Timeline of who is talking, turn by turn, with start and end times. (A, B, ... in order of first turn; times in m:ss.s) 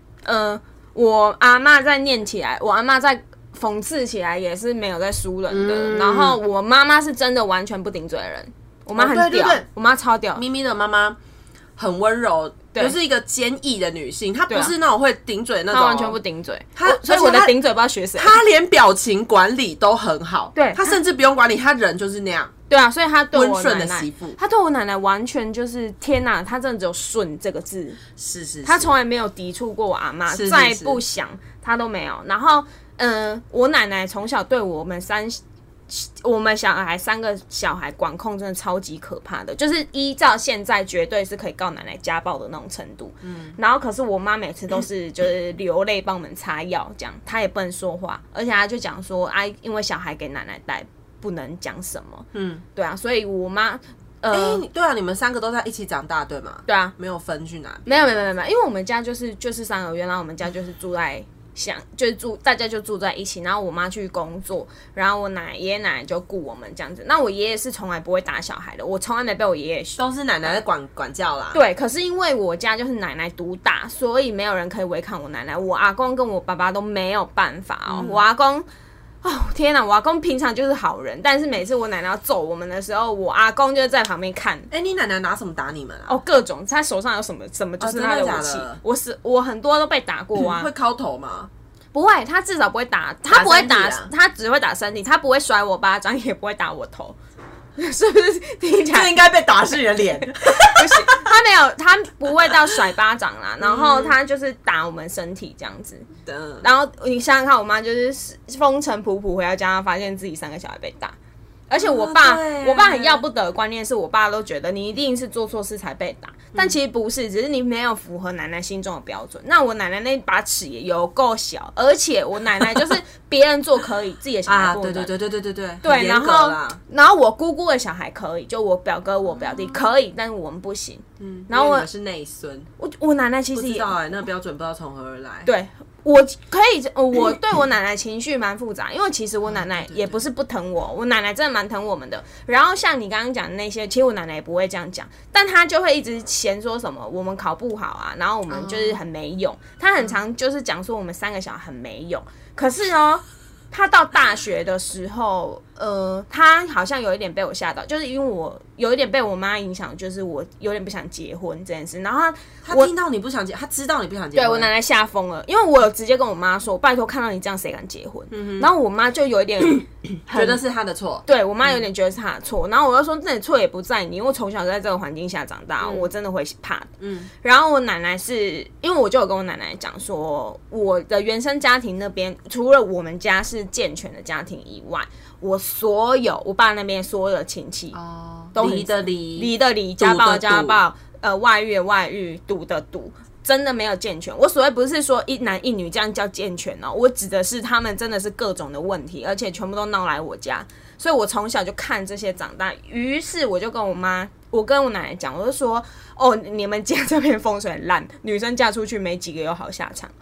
0:00.2-0:10.4 A
0:05.5-0:06.4 B
0:09.0-0:09.7 B
0:10.4-0:11.2 B
0:11.8-0:16.2 B
0:15.7-0:18.4 A
0:16.8-0:17.6 B
0:18.2-0:22.5 B
0:20.6-0:21.0 A
0:22.7-0:28.0 A
0:23.3-0:24.4 B
0:28.2-0:29.0 B
0:28.6-0:54.6 A
0:30.3-0:31.0 B
0:43.2-0:43.6 B
0:52.3-0:52.6 B
0:54.3-0:58.1 B
0:56.7-0:56.9 A
0:57.9-1:10.6 A
1:10.0-1:11.6 B
1:11.5-1:18.7 A
1:17.9-1:18.2 B
1:19.2-1:24.7 A
1:24.7-1:26.2 B
1:26.1-1:30.7 A
1:27.8-1:28.8 B
1:30.4-1:31.5 B
1:31.9-1:37.2 A
1:33.3-1:34.1 B
1:37.8-1:39.1 A
1:38.9-1:41.3 B
1:40.4-1:46.1 A
1:43.6-1:44.2 B
1:46.3-1:46.6 B
1:46.6-1:51.1 A
1:51.7-2:05.1 A
1:51.8-1:53.2 B
2:04.5-2:06.8 B
2:05.8-2:11.9 A
2:11.2-2:12.7 B
2:12.8-2:14.0 A
2:13.5-2:15.5 B
2:15.5-2:42.9 A
2:19.5-2:20.2 B
2:28.5-2:29.0 B
2:42.6-2:44.7 B
2:44.3-2:50.6 A
2:48.3-2:48.7 B
2:50.3-2:51.8 B
2:51.3-2:56.9 A
2:55.8-2:56.1 B
2:57.0-2:57.3 B
2:57.4-3:08.0 A
3:07.9-3:10.8 B
3:08.6-3:30.1 A